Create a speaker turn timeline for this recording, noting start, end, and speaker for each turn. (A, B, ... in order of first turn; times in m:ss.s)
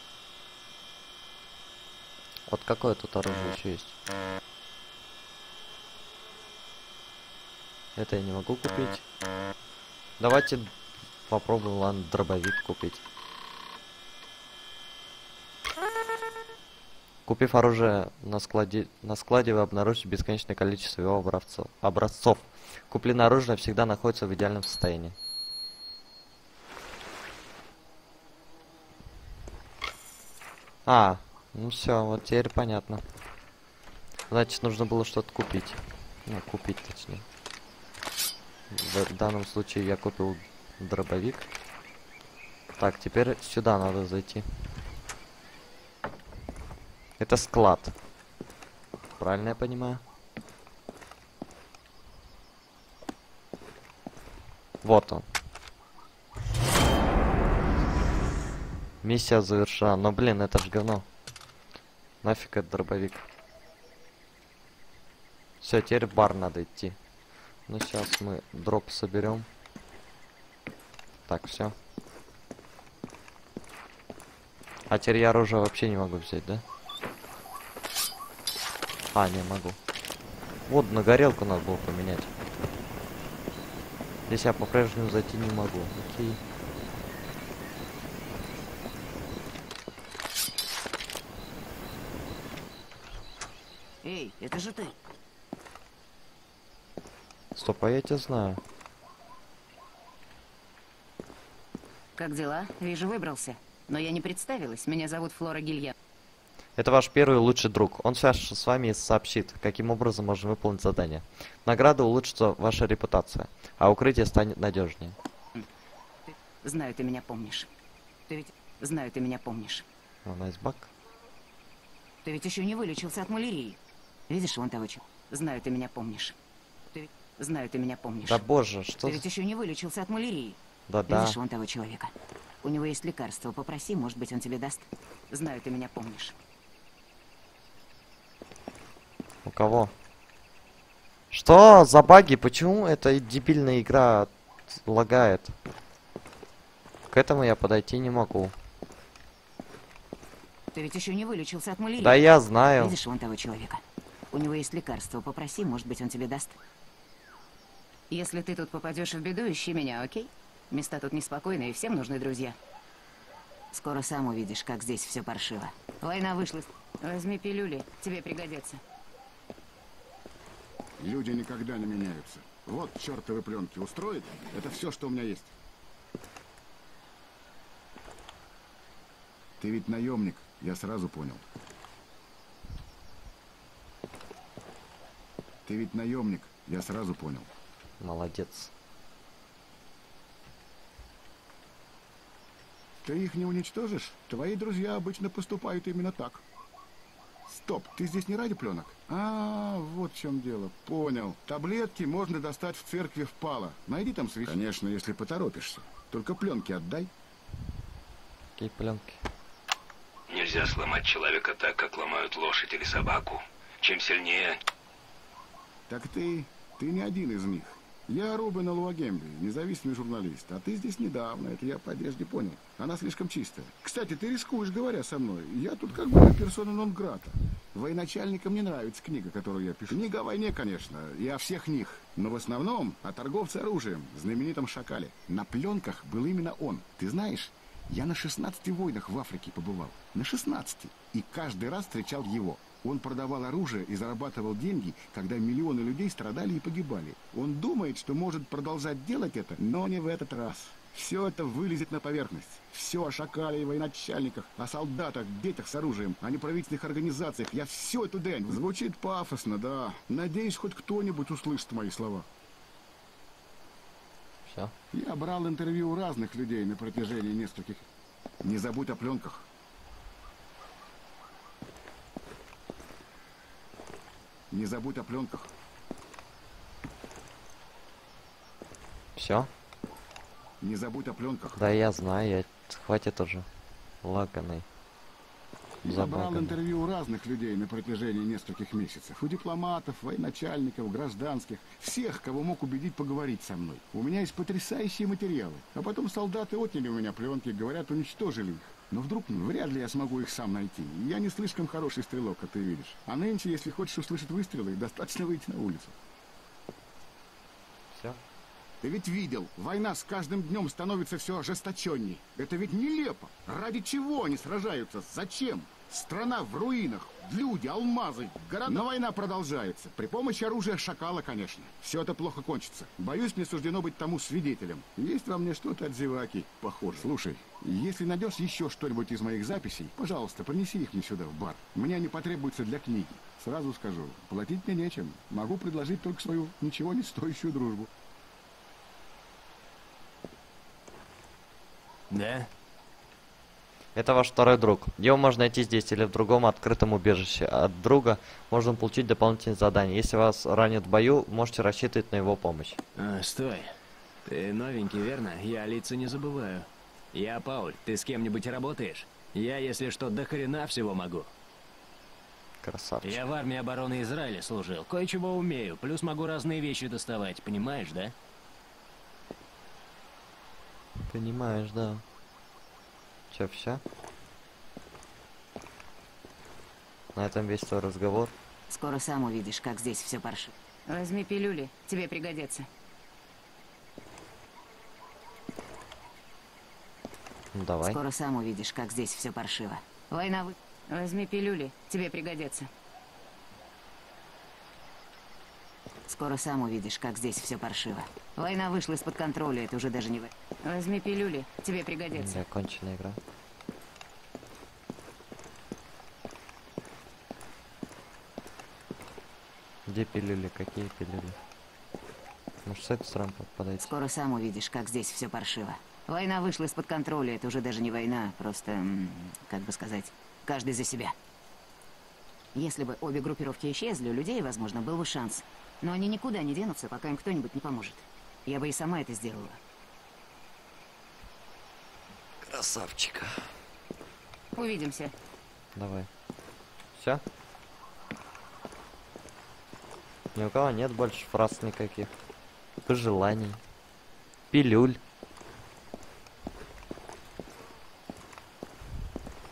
0:02.5-0:04.0 A
0:08.0-0:09.0 A
0:10.2-0:10.7 A
0:11.3-0:13.0 A
0:17.2-0:25.2 A
0:30.8-0:33.0 A
0:34.3-0:37.2 A
0:38.7-0:41.5 A
0:42.8-0:44.5 A
0:47.2-0:47.9 A
0:49.2-0:50.0 A
0:54.8-0:55.3 A
0:59.0-1:01.0 A
1:02.2-1:03.2 A
1:05.6-1:07.0 A
1:07.7-1:09.5 A
1:11.3-1:11.7 A
1:14.9-1:16.6 A
1:19.1-1:19.8 A
1:20.7-1:22.3 A
1:24.3-1:26.4 A
1:34.0-1:35.0 B
1:37.6-1:38.6 A
1:42.2-1:45.9 B
1:46.8-1:55.2 A
1:56.3-1:57.7 B
1:58.3-1:59.8 B
2:00.2-2:00.9 A
2:02.2-2:06.4 B
2:06.9-2:08.4 B
2:08.2-2:09.2 A
2:09.0-2:10.6 B
2:10.9-2:11.4 A
2:11.1-2:16.4 B
2:19.4-2:19.9 A
2:21.3-2:25.5 A
2:27.1-2:28.5 A
2:30.7-2:32.2 B
2:32.0-2:32.9 A
2:32.8-2:36.6 B
2:38.1-2:42.6 B
2:43.7-2:48.8 B
2:51.0-2:55.5 C
2:59.6-3:01.4 C
3:05.6-3:07.5 C
3:08.0-3:08.7 A
3:13.0-3:16.4 C
3:17.5-3:27.1 C
3:28.6-3:29.2 A
3:30.3-3:34.6 D
3:35.9-4:22.3 C
4:24.4-4:24.7 A
4:24.9-4:27.8 C
4:28.4-4:29.4 C
4:34.5-4:35.5 C
4:39.2-4:39.5 A
4:40.6-4:41.6 C
4:41.6-4:43.5 A
4:44.0-4:44.6 A
4:45.8-5:06.0 C
4:45.8-4:46.6 A
5:07.9-5:08.2 A
5:08.8-5:37.9 C
5:42.1-5:42.5 E
5:43.9-5:52.8 A
5:53.0-5:53.7 E
5:54.3-6:01.3 E
6:02.6-6:03.2 A
6:03.0-6:08.1 E
6:11.1-6:12.0 A
6:13.3-6:13.8 A
6:17.1-6:18.3 A
6:18.7-6:22.7 B
6:27.5-6:28.0 A
6:27.8-6:32.7 B
6:36.1-6:42.4 B
6:42.1-6:43.2 A
6:49.9-6:51.4 A
6:52.6-6:53.9 A
6:53.8-7:01.1 B
7:02.5-7:09.6 B
7:12.4-7:13.4 A
7:14.6-7:15.1 B
7:15.8-7:16.1 A
7:17.0-7:17.2 A
7:20.3-7:22.1 A
7:22.8-7:23.6 A
7:24.5-7:25.0 A